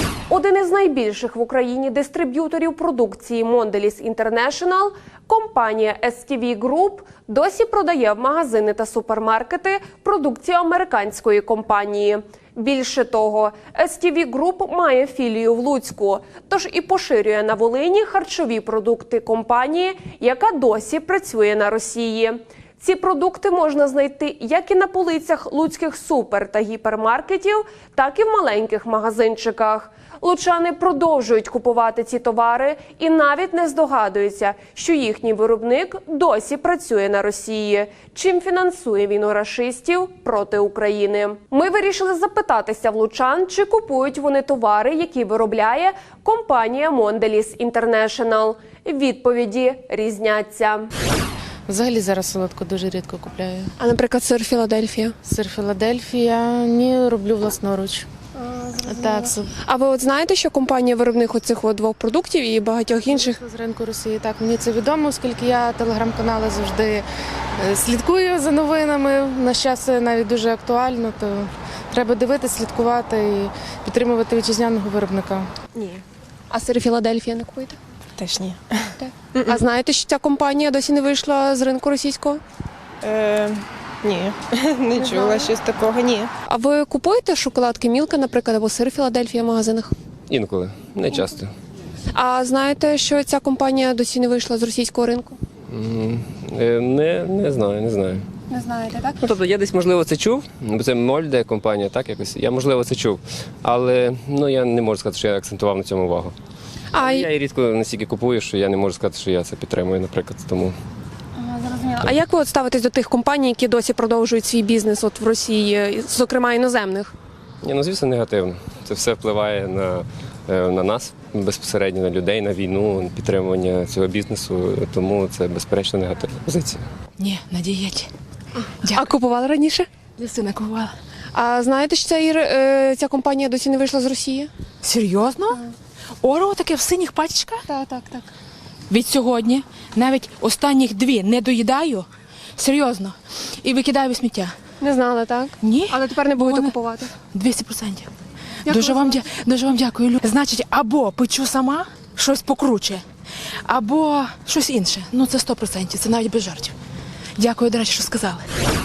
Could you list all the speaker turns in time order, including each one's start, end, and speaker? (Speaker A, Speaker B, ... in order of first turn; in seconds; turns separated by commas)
Speaker A: 0.3-50.9, Speaker B: 51.7-53.7, Speaker A: 53.8-55.1, Speaker B: 55.2-58.1, Speaker A: 58.4-63.4, Speaker B: 58.8-59.5, Speaker B: 63.1-67.0, Speaker B: 67.6-75.5, Speaker A: 76.5-77.8, Speaker C: 78.2-79.6, Speaker A: 79.0-82.4, Speaker C: 83.0-86.3, Speaker A: 85.0-85.5, Speaker A: 86.5-89.9, Speaker D: 90.3-91.5, Speaker A: 92.1-95.4, Speaker D: 95.7-98.2, Speaker A: 98.5-99.2, Speaker D: 99.2-106.3, Speaker A: 106.9-107.3, Speaker D: 107.0-110.8, Speaker A: 111.4-117.1, Speaker D: 117.6-126.8, Speaker E: 127.2-128.1, Speaker E: 128.8-129.1, Speaker A: 128.8-129.9, Speaker E: 130.2-130.9, Speaker A: 131.3-134.5, Speaker E: 134.8-135.6, Speaker E: 136.2-137.7, Speaker A: 137.7-138.3, Speaker E: 138.9-144.5, Speaker A: 144.8-147.1, Speaker E: 145.6-148.1, Speaker A: 148.7-149.2, Speaker E: 148.7-153.0, Speaker E: 153.7-156.7, Speaker E: 157.4-158.4